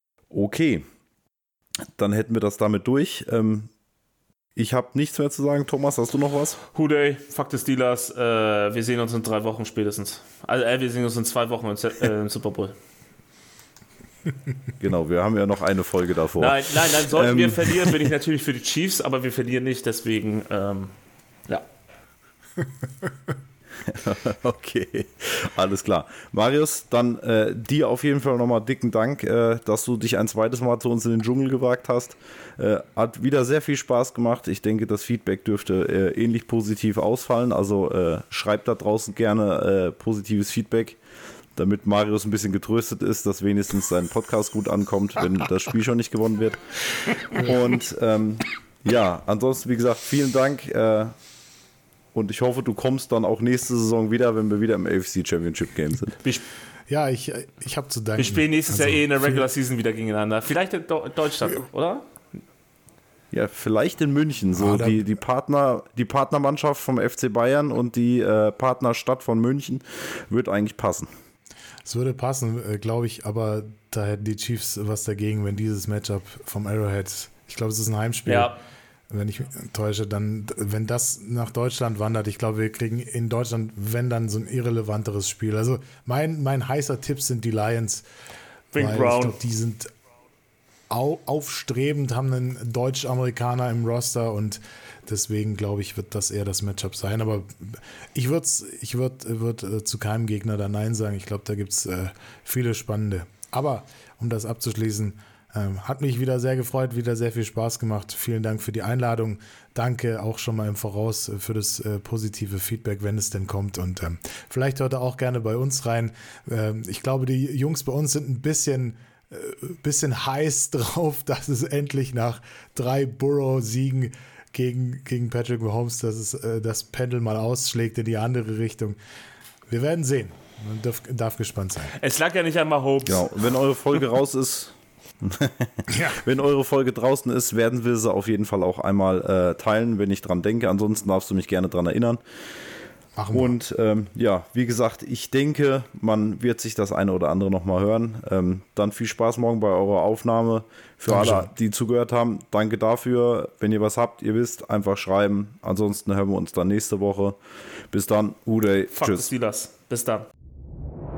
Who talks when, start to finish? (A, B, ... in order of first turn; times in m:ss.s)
0:00.3-0:00.8 A
0:02.0-0:03.7 A
0:04.6-0:06.6 A
0:06.7-0:12.7 B
0:14.8-0:18.1 A
0:16.4-0:20.9 B
0:23.8-0:41.0 A
0:41.6-0:46.7 A
0:47.2-0:51.1 A
0:52.1-0:56.1 A
0:56.9-0:59.4 C
0:58.2-1:02.1 B
1:03.3-1:11.1 A
1:04.6-1:05.0 C
1:11.8-1:18.5 C
1:18.2-1:18.6 B
1:19.1-1:28.0 C
1:28.7-1:29.4 B
1:28.8-1:29.9 C
1:30.9-2:09.0 C
2:09.7-2:11.9 C
2:12.0-2:13.3 B
2:13.0-2:22.2 A
2:15.9-2:16.2 C
2:23.2-2:23.6 C
2:23.3-2:37.4 A
2:31.1-2:31.5 C
2:37.9-2:39.3 A
2:38.9-2:40.3 B